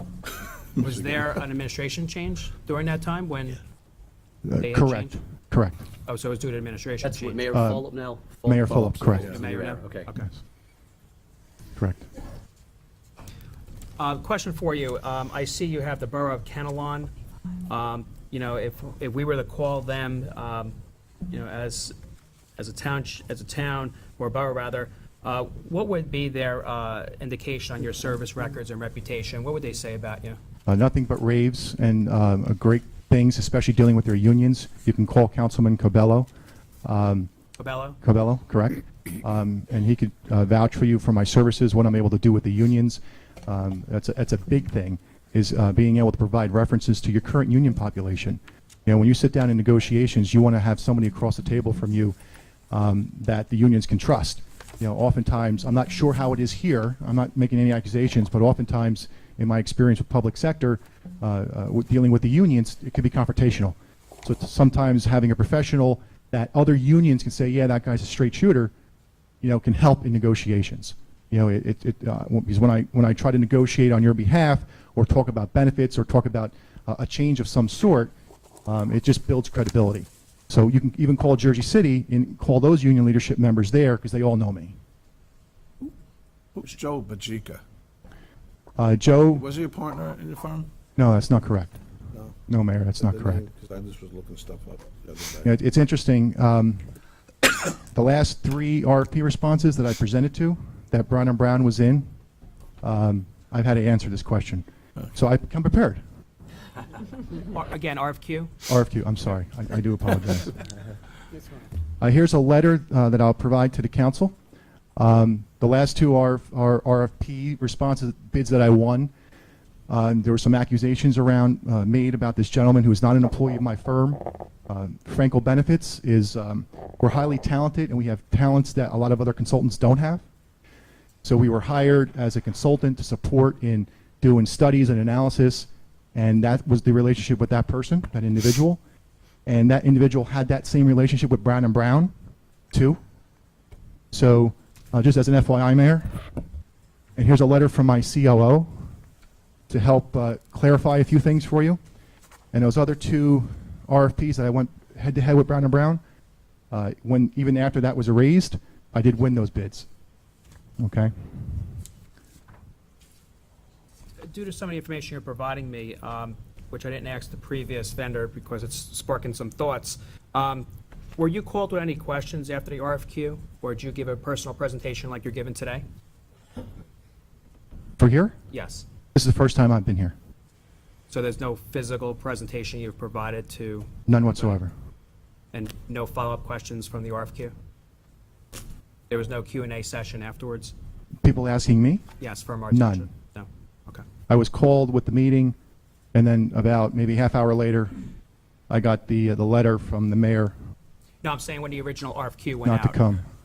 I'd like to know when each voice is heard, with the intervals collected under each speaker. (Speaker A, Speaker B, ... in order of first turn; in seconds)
Speaker A: 0.8-1.3, 86.5-87.6, 89.3-90.7, 93.0-95.5
Speaker B: 0.8-3.6, 4.6-5.2, 6.0-7.4, 9.2-10.3, 14.0-17.1, 17.7-20.7, 21.3-21.9, 22.6-30.4, 37.6-38.0, 107.4-108.5, 164.2-175.8, 178.5-178.8, 181.1-184.6, 185.5-187.5, 189.1-190.7, 192.2-194.0, 201.2-203.0
Speaker C: 4.4-5.8, 7.5-7.8, 8.4-9.3, 11.8-12.0, 30.6-36.3, 36.8-37.3, 38.0-52.1, 52.7-68.7, 69.4-78.1, 78.7-84.8, 88.8-89.5, 91.0-91.7, 92.5-93.4, 95.4-96.8, 97.9-102.1, 102.8-106.0, 108.7-110.6, 112.0-114.3, 115.0-119.1, 119.9-130.2, 131.2-138.8, 139.4-142.1, 142.7-143.0, 144.1-146.2, 147.2-148.7, 149.7-151.8, 152.5-156.0, 156.7-159.9, 160.8-161.1, 178.0-178.3, 179.1-180.1, 184.1-184.7, 191.2-192.0, 192.7-193.1, 194.3-195.6, 196.1-197.9, 198.7-200.5, 202.6-203.2
Speaker D: 7.0-10.1